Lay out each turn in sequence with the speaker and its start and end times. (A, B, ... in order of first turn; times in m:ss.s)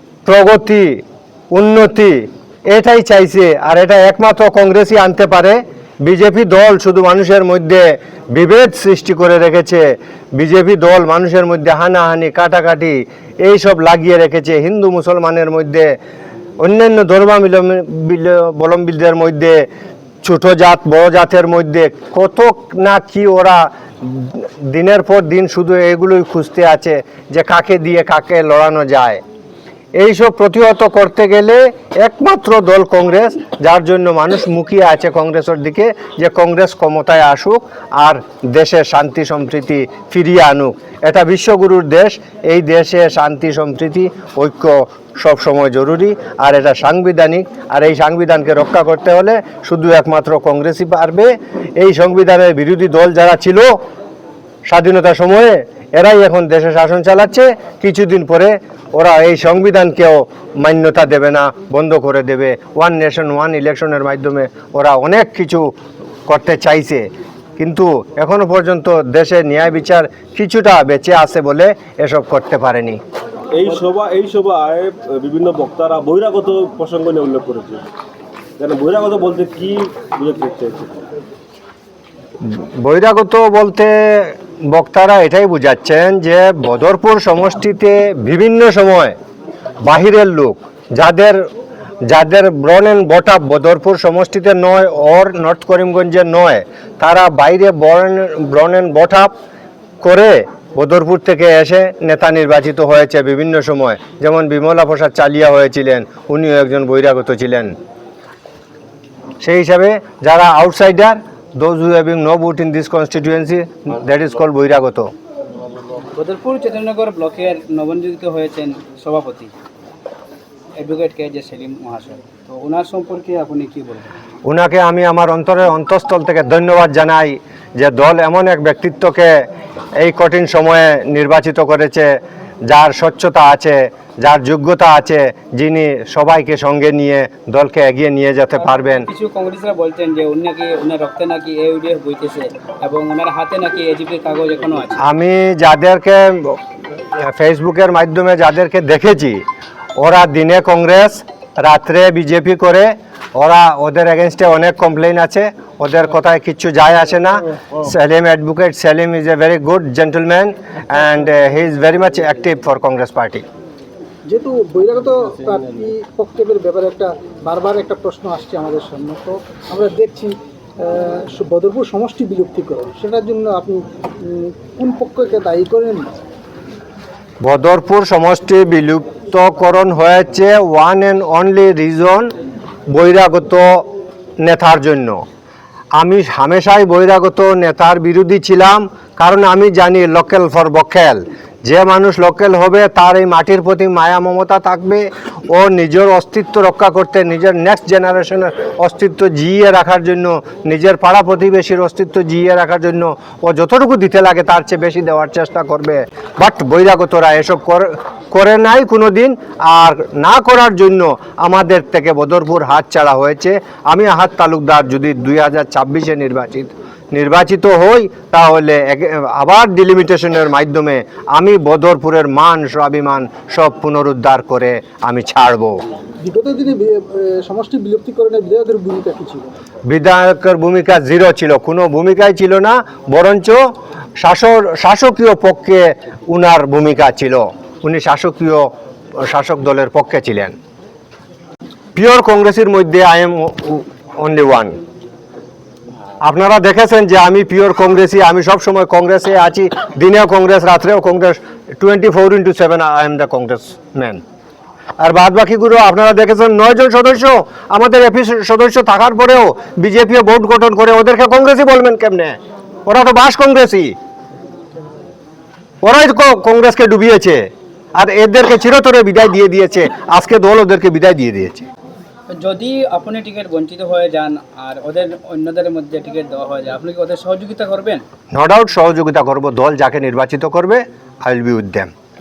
0:00.2-0:16.0 A
0:16.6-0:19.7 A
0:20.2-0:29.2 A
0:30.0-0:53.8 A
0:54.7-1:05.7 A
1:06.3-1:07.1 A
1:07.6-1:13.0 A
1:13.6-1:17.8 B
1:18.6-1:20.9 B
1:22.4-1:29.2 A
1:29.8-1:31.4 A
1:32.0-1:39.3 A
1:40.0-1:47.7 A
1:49.4-1:55.1 A
1:56.2-1:59.5 C
2:00.8-2:04.1 C
2:04.4-2:09.4 A
2:10.0-2:19.1 A
2:18.6-2:25.0 C
2:25.0-2:29.4 A
2:30.0-2:43.4 A
2:44.3-2:56.1 D
2:57.4-3:02.3 A
3:02.9-3:03.9 A
3:04.4-3:05.2 A
3:06.0-3:45.8 A
3:46.2-3:49.6 D
3:49.9-3:53.6 A
3:54.2-3:58.7 A
3:59.2-4:00.6 A
4:02.0-4:04.8 A
4:06.2-4:14.2 A
4:15.0-4:24.0 A
4:25.8-4:31.7 A
4:32.3-4:38.0 C
4:38.3-4:41.9 A